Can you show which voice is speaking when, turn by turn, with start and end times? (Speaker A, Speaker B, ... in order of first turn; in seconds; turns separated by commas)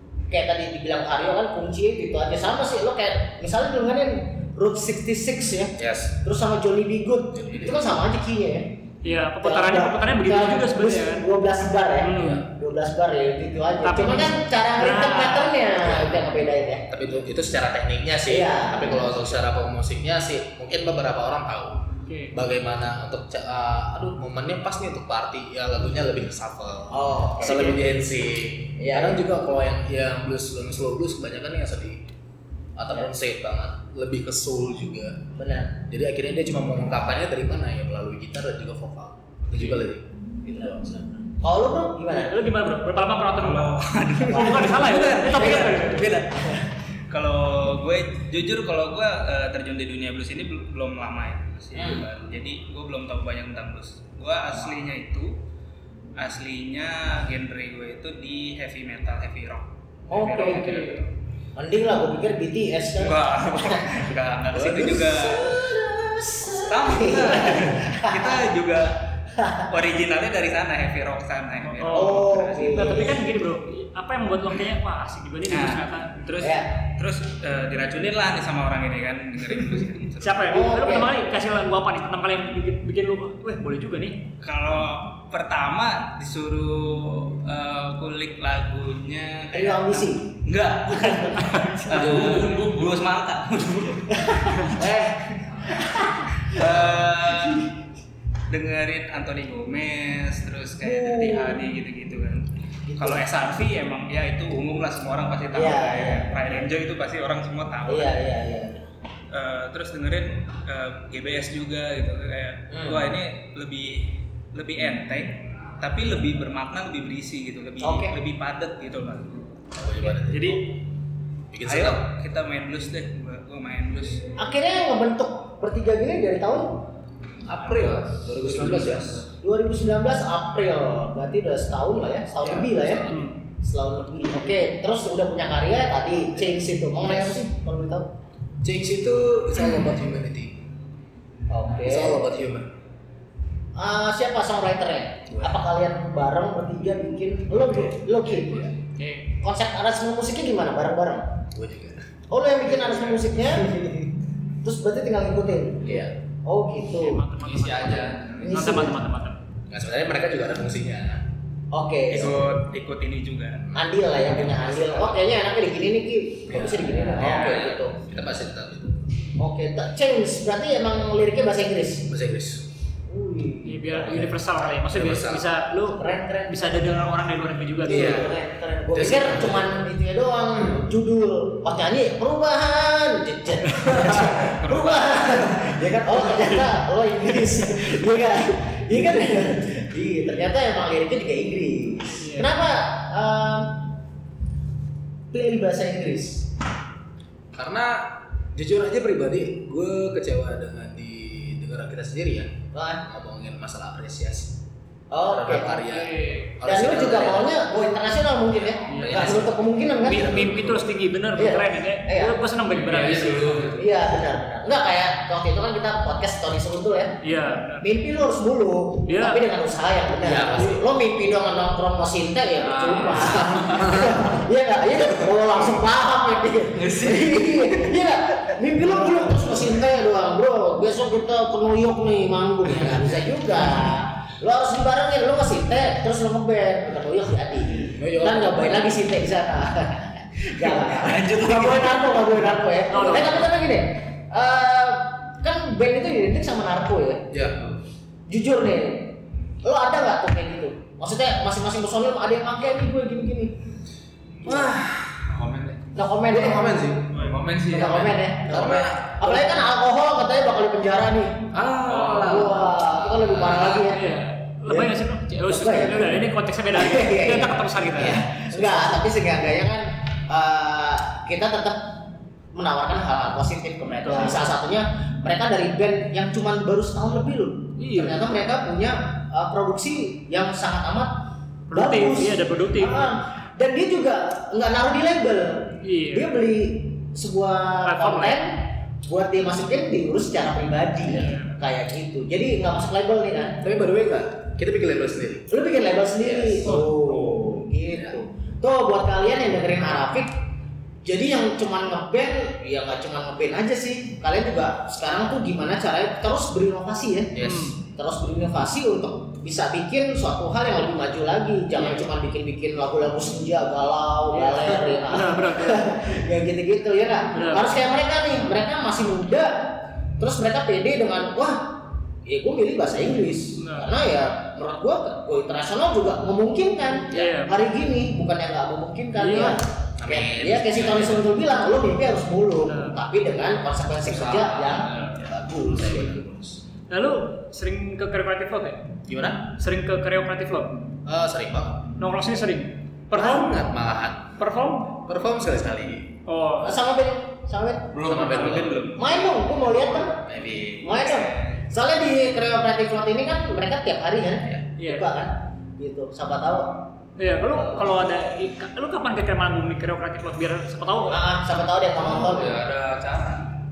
Speaker A: 0.3-8.7, Speaker B: 5.8-6.2, Speaker B: 7.3-8.0, Speaker C: 9.0-11.3, Speaker A: 9.4-16.9, Speaker C: 12.0-12.4, Speaker B: 12.1-12.5, Speaker C: 13.8-15.7, Speaker B: 16.9-32.1, Speaker A: 18.3-19.1, Speaker C: 22.1-22.4, Speaker A: 26.9-27.8, Speaker C: 27.5-27.8, Speaker A: 28.8-29.2, Speaker B: 32.8-41.0, Speaker A: 35.4-35.8, Speaker A: 40.5-42.4, Speaker C: 42.1-43.7, Speaker D: 43.4-55.4, Speaker A: 44.3-45.9, Speaker C: 44.3-46.1, Speaker A: 51.8-52.1, Speaker D: 56.2-61.1, Speaker A: 60.1-60.6, Speaker C: 60.4-61.0, Speaker A: 61.6-63.9, Speaker D: 63.0-65.7, Speaker B: 64.5-65.2, Speaker A: 64.9-68.5, Speaker D: 66.5-69.0, Speaker A: 69.3-69.7, Speaker D: 69.7-73.2, Speaker C: 71.8-76.5, Speaker A: 71.8-73.3, Speaker D: 75.5-80.6, Speaker A: 76.4-76.7, Speaker C: 80.2-84.2, Speaker A: 80.5-81.1, Speaker D: 84.4-94.8, Speaker A: 89.5-90.3, Speaker A: 91.0-91.3, Speaker B: 92.0-92.5, Speaker A: 94.1-94.5, Speaker B: 94.8-95.3, Speaker A: 95.7-96.1, Speaker D: 96.4-97.7, Speaker D: 98.5-108.2, Speaker A: 100.8-101.6, Speaker A: 102.9-103.2, Speaker A: 105.5-106.5, Speaker A: 107.9-108.8, Speaker D: 109.3-119.4, Speaker A: 112.7-113.1, Speaker A: 117.8-118.1, Speaker B: 119.7-120.6, Speaker D: 120.3-120.6, Speaker B: 121.5-122.1, Speaker D: 121.7-124.3, Speaker A: 124.4-126.8, Speaker B: 127.4-129.3, Speaker E: 127.7-129.3, Speaker A: 129.4-138.1, Speaker B: 132.4-133.1, Speaker C: 133.1-133.4, Speaker B: 138.6-140.6, Speaker A: 141.5-142.2, Speaker B: 141.8-142.7, Speaker A: 143.8-148.7, Speaker B: 145.3-145.6, Speaker E: 148.5-148.7, Speaker C: 149.0-149.3, Speaker A: 149.4-151.4, Speaker B: 151.5-152.1, Speaker A: 152.3-154.0, Speaker B: 152.8-154.0, Speaker A: 154.6-157.2, Speaker B: 155.8-156.2, Speaker C: 157.0-159.4, Speaker E: 157.4-158.6, Speaker A: 158.4-159.0, Speaker B: 159.7-161.3, Speaker A: 161.7-162.6, Speaker D: 162.1-163.7, Speaker B: 163.7-165.2, Speaker A: 163.8-168.0, Speaker B: 166.5-169.1, Speaker D: 167.1-167.7, Speaker A: 169.4-172.1, Speaker B: 172.1-172.7, Speaker A: 173.1-174.4, Speaker C: 173.7-178.2, Speaker B: 174.9-175.5, Speaker A: 175.9-177.0, Speaker A: 177.8-193.8, Speaker B: 177.9-178.4, Speaker D: 177.9-178.3, Speaker B: 178.9-179.7, Speaker B: 184.0-184.3, Speaker D: 184.8-185.4, Speaker C: 192.2-192.5, Speaker A: 195.3-196.5, Speaker B: 197.5-204.6, Speaker A: 202.7-203.0, Speaker A: 205.1-206.1, Speaker B: 205.2-207.6, Speaker C: 205.9-206.5, Speaker A: 206.6-210.6, Speaker B: 208.6-210.9, Speaker C: 208.9-209.4, Speaker C: 210.0-213.7, Speaker A: 211.3-212.4, Speaker E: 212.7-213.9, Speaker A: 213.8-217.2, Speaker C: 217.2-217.9, Speaker A: 217.8-247.2, Speaker C: 219.1-219.4, Speaker B: 220.2-220.9, Speaker E: 222.6-224.0, Speaker B: 223.8-224.2, Speaker E: 226.8-227.4, Speaker B: 237.9-239.0, Speaker D: 240.6-242.3, Speaker C: 242.9-243.5, Speaker B: 247.3-247.8, Speaker A: 248.3-253.5, Speaker B: 254.4-255.3, Speaker E: 255.3-255.8, Speaker A: 255.9-256.8, Speaker B: 256.3-257.2, Speaker E: 257.1-258.2, Speaker A: 257.6-264.1, Speaker B: 258.4-259.5, Speaker B: 261.5-263.8, Speaker C: 261.9-262.4, Speaker C: 263.8-268.3, Speaker A: 265.5-271.9, Speaker A: 272.5-281.1, Speaker C: 274.1-274.4, Speaker C: 277.8-278.2, Speaker C: 281.7-283.0, Speaker A: 281.7-293.6, Speaker C: 285.8-286.3, Speaker C: 287.8-288.4, Speaker C: 291.1-291.6, Speaker B: 293.6-295.6, Speaker A: 295.5-300.3, Speaker B: 296.2-296.9, Speaker C: 296.6-297.4, Speaker B: 297.9-298.2, Speaker A: 301.1-307.3, Speaker B: 307.3-307.8, Speaker C: 307.4-307.8, Speaker A: 308.0-321.7, Speaker C: 311.8-312.1, Speaker C: 314.3-315.9, Speaker C: 317.3-317.8, Speaker A: 322.2-336.1, Speaker C: 323.6-323.9, Speaker C: 327.1-327.6, Speaker C: 329.1-329.6, Speaker B: 330.0-331.3, Speaker C: 332.7-333.0, Speaker E: 334.0-335.3, Speaker B: 335.1-336.6, Speaker C: 336.9-338.9, Speaker B: 339.1-339.5, Speaker C: 339.6-340.8, Speaker B: 341.1-341.9, Speaker C: 342.0-343.6, Speaker B: 343.1-344.4, Speaker C: 344.4-345.0, Speaker B: 344.9-346.2, Speaker C: 346.3-346.8, Speaker A: 346.6-347.9, Speaker E: 348.0-348.7, Speaker B: 348.0-348.9, Speaker D: 348.1-349.2, Speaker A: 349.0-350.2, Speaker B: 349.6-351.2, Speaker A: 350.8-356.9, Speaker D: 351.0-351.6, Speaker C: 354.8-355.1, Speaker C: 357.2-361.2, Speaker A: 357.5-358.0, Speaker A: 361.1-362.6, Speaker E: 362.0-363.6